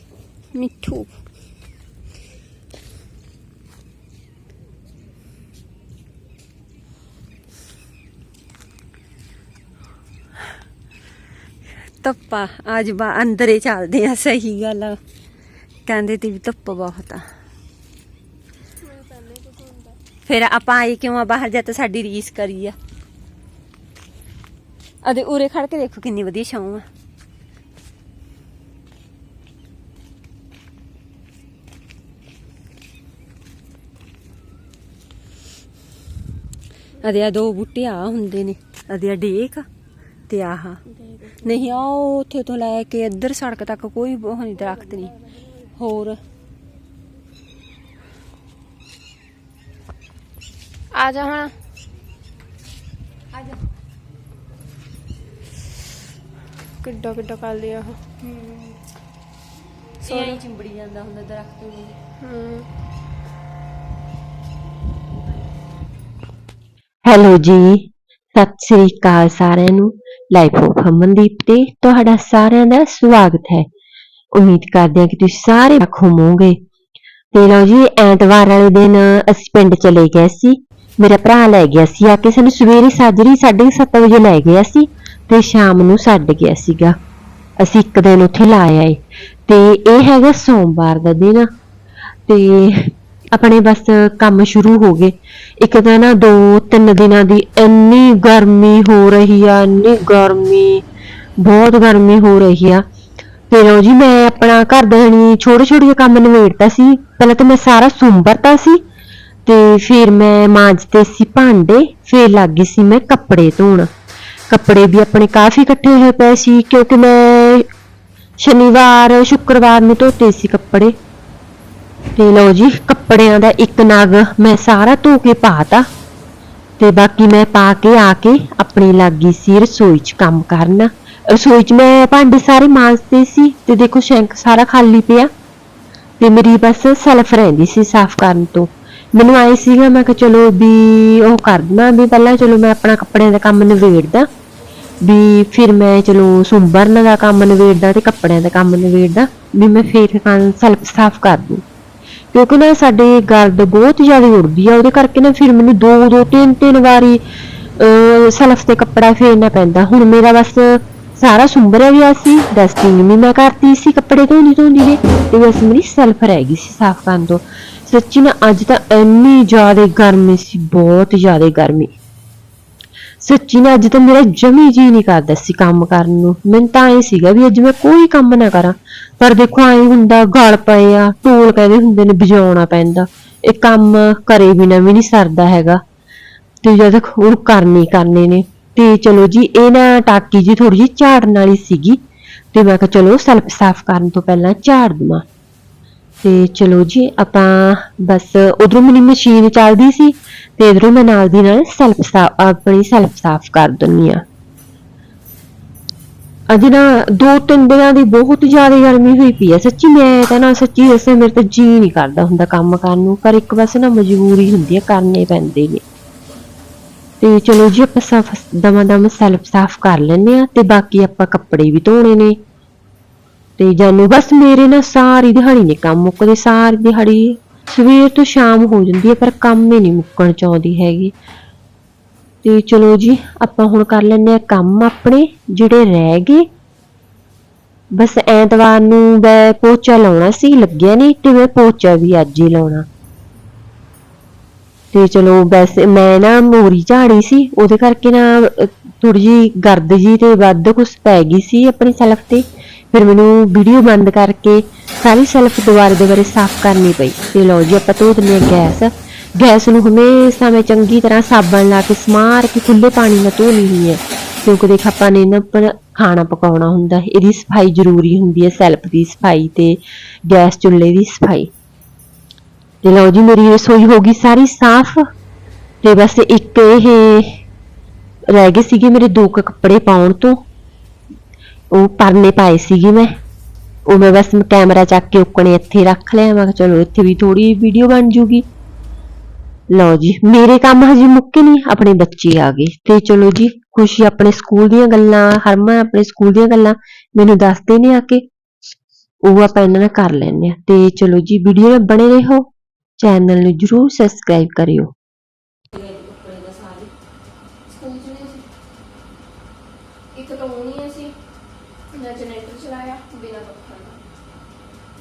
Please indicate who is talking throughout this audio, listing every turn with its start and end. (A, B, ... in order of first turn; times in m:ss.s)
0:00.6-0:01.1 A
0:12.0-0:15.0 A
0:15.9-0:17.3 A
0:18.8-0:20.0 B
0:20.3-0:22.8 A
0:25.0-0:26.9 A
0:37.0-0:39.7 A
0:40.3-0:40.8 A
0:40.9-0:41.6 B
0:41.4-0:45.2 A
0:45.8-0:46.2 A
0:50.9-0:51.5 B
0:53.3-0:53.6 A
0:56.8-0:58.0 B
0:58.2-0:58.7 A
1:00.0-1:02.0 A
1:00.0-1:00.4 B
1:02.2-1:02.7 B
1:07.1-1:13.7 C
1:14.3-1:16.6 C
1:17.3-1:27.0 C
1:27.6-1:31.5 C
1:32.3-1:40.8 C
1:41.4-1:42.8 C
1:43.5-1:48.8 C
1:49.5-1:53.9 C
1:54.5-1:57.7 C
1:58.4-2:00.9 C
2:02.2-2:05.9 C
2:06.8-2:15.3 C
2:16.2-2:24.3 C
2:25.0-2:31.6 C
2:32.3-2:37.2 C
2:37.8-2:52.0 C
2:53.2-3:05.8 C
3:06.6-3:12.0 C
3:12.5-3:15.2 C
3:16.2-3:24.2 C
3:26.5-3:35.8 C
3:37.2-3:42.4 C
3:43.6-3:51.1 C
3:52.4-3:56.5 C
3:58.0-4:02.9 C
4:04.9-4:31.5 C
4:32.8-4:35.1 C
4:35.8-4:37.4 C
4:38.3-4:40.4 C
4:41.7-4:43.2 C
4:43.9-4:48.5 C
4:49.7-4:58.2 C
4:59.2-5:02.4 C
5:03.0-5:04.9 C
5:05.7-5:06.9 A
5:07.7-5:08.4 B
5:10.1-5:11.1 B
5:11.9-5:14.0 B